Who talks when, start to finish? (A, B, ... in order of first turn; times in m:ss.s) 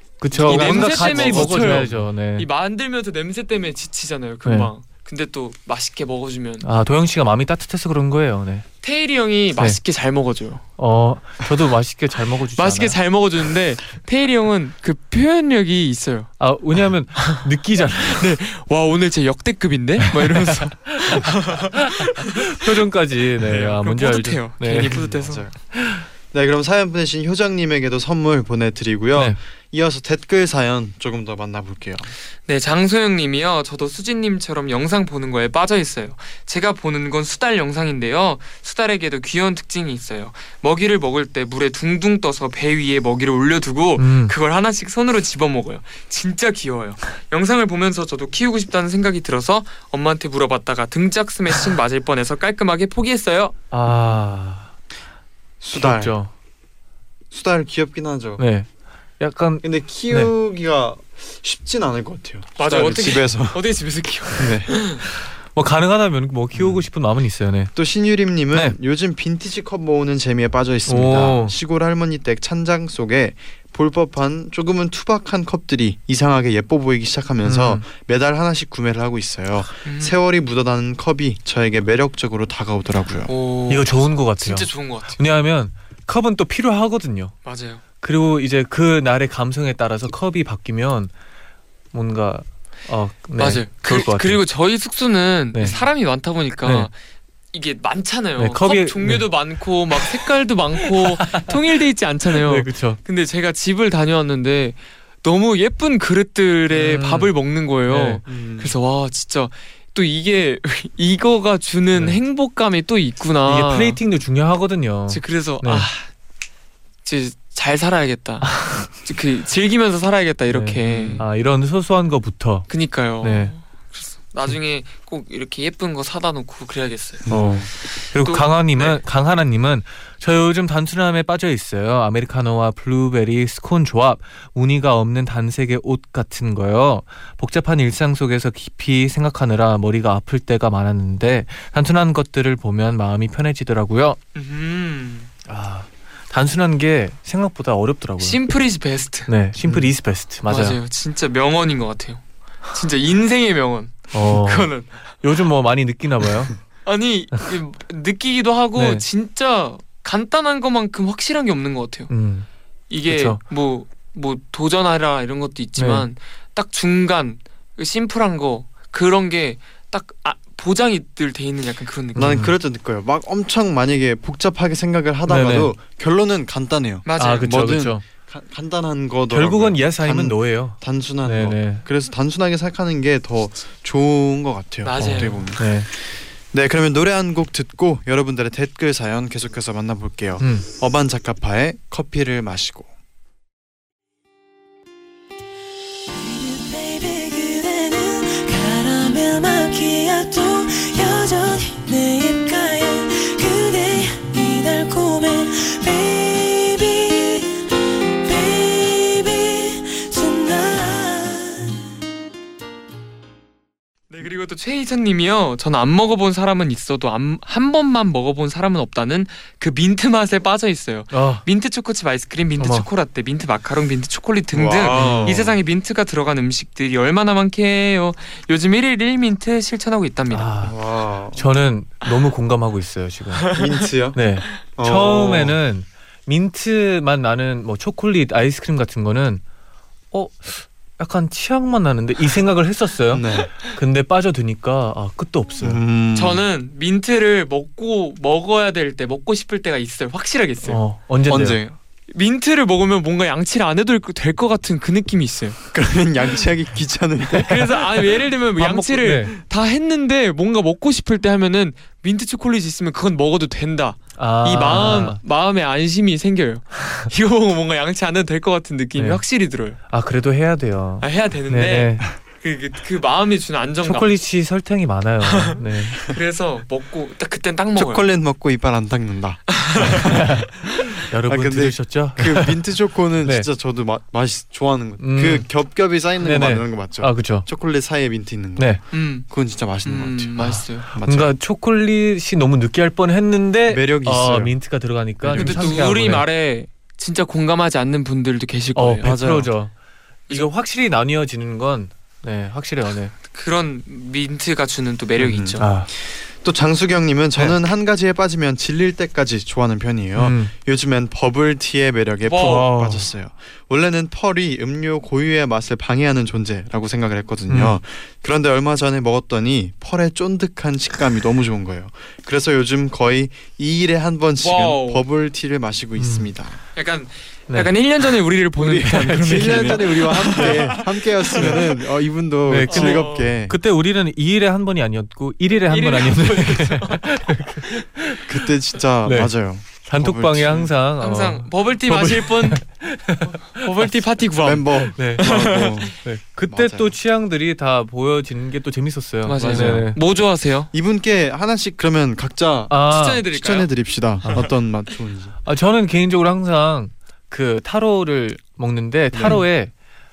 0:00.2-0:02.4 A
0:00.3-0:06.6 B
0:00.3-0:01.9 C
0:04.4-0:04.7 A
0:06.6-0:08.6 A
0:08.8-0:10.6 B
0:10.8-0:13.0 A
0:12.6-0:16.4 B
0:16.4-0:18.3 A
0:18.0-0:22.3 B
0:20.1-0:26.0 A
0:23.4-0:25.5 B
0:24.8-0:32.1 C
0:32.4-0:53.5 B
0:44.0-0:44.3 A
0:53.7-0:54.7 A
0:55.6-0:56.2 C
0:55.7-0:56.3 A
0:57.3-0:58.4 C
0:58.4-0:58.7 A
0:59.2-1:00.3 A
0:59.6-1:03.6 C
1:02.6-1:05.0 B
1:04.3-1:04.8 C
1:05.5-1:07.7 A
1:06.5-1:06.8 C
1:07.7-1:23.3 C
1:10.9-1:11.5 A
1:17.4-1:17.8 A
1:19.8-1:20.2 B
1:23.3-1:25.2 B
1:23.7-1:27.4 A
1:27.4-1:27.8 B
1:28.0-1:31.1 A
1:31.9-1:34.4 A
1:33.4-1:36.9 B
1:35.5-1:35.8 A
1:36.6-1:36.9 A
1:37.5-1:54.0 B
1:38.4-1:40.0 A
1:40.9-1:41.6 A
1:42.4-1:43.0 A
1:46.7-1:47.3 A
1:47.8-1:48.2 A
1:48.2-1:48.7 C
1:51.9-1:52.2 A
1:53.4-1:55.9 A
1:55.1-1:56.1 B
1:57.0-2:01.2 B
1:58.4-1:58.9 A
2:00.5-2:03.5 A
2:00.9-2:01.2 C
2:02.7-2:07.3 B
2:07.2-2:07.7 C
2:07.3-2:24.2 A
2:07.8-2:09.0 B
2:24.3-2:25.3 B
2:25.4-2:28.4 A
2:28.2-2:29.3 B
2:29.3-2:30.8 A
2:29.6-2:29.9 C
2:30.4-2:35.0 B
2:34.1-2:36.5 A
2:36.8-2:42.1 B
2:38.8-2:39.0 A
2:42.1-2:42.5 A
2:42.9-2:52.3 B
2:43.0-2:43.4 A
2:45.8-2:46.1 A
2:52.1-2:52.5 A
2:52.2-3:12.9 C
2:55.3-2:55.7 A
2:57.0-2:57.6 B
2:57.2-2:58.0 A
2:59.3-3:01.8 A
3:04.8-3:05.4 B
3:05.0-3:05.9 A
3:10.4-3:10.6 A
3:16.1-3:27.6 D
3:28.2-3:31.8 D
3:34.1-3:50.5 B
3:41.1-3:41.4 A
3:42.6-3:42.9 A
3:44.5-3:45.6 C
3:44.9-3:45.4 A
3:50.3-3:53.6 A
3:50.6-3:51.4 C
3:53.5-3:55.6 C
3:54.1-3:59.4 A
4:00.1-4:05.8 A
4:03.1-4:03.5 C
4:05.6-4:06.4 C
4:06.1-4:10.8 B
4:10.6-4:11.6 A
4:11.3-4:11.8 C
4:12.1-4:15.6 B
4:15.7-4:17.6 C
4:17.3-4:29.8 B
4:18.6-4:19.4 A
4:24.2-4:25.2 A
4:29.0-4:29.2 A
4:29.8-4:32.1 A
4:31.0-4:34.1 B
4:33.8-4:36.1 A
4:35.3-4:38.0 B
4:37.8-4:40.2 C
4:39.5-4:40.0 B
4:40.1-4:40.5 A
4:41.1-4:42.5 A
4:41.2-4:51.3 C
4:43.2-4:43.5 A
4:45.0-4:45.6 A
4:46.2-4:47.5 A
4:48.6-4:48.8 A
4:48.9-4:49.2 B
4:49.8-4:50.9 B
4:50.4-4:56.3 A
4:53.7-4:54.6 C
4:55.2-4:55.9 C
4:55.4-4:59.2 B
4:58.8-4:59.7 A
4:59.0-4:59.5 C
5:00.3-5:03.1 A
5:03.3-5:05.7 B
5:05.2-5:26.6 C
5:05.6-5:05.9 A
5:10.2-5:10.5 A
5:12.2-5:12.6 B
5:12.4-5:13.1 A
5:17.5-5:17.8 A
5:24.4-5:25.0 B
5:26.0-5:26.3 A
5:26.7-5:31.5 B
5:27.5-5:28.0 A
5:28.6-5:33.6 C
5:28.7-5:30.4 A
5:32.5-5:38.4 A
5:32.7-5:33.3 B
5:35.7-5:37.4 B
5:38.2-5:40.7 C
5:39.0-5:43.9 A
5:41.0-5:42.6 B
5:43.6-5:45.8 B
5:44.4-5:46.9 C
5:45.0-5:50.0 A
5:49.2-5:50.7 B
5:49.3-5:55.4 C
5:52.7-5:53.2 A
5:52.9-5:53.7 B
5:55.4-5:59.7 A
5:59.1-5:59.4 C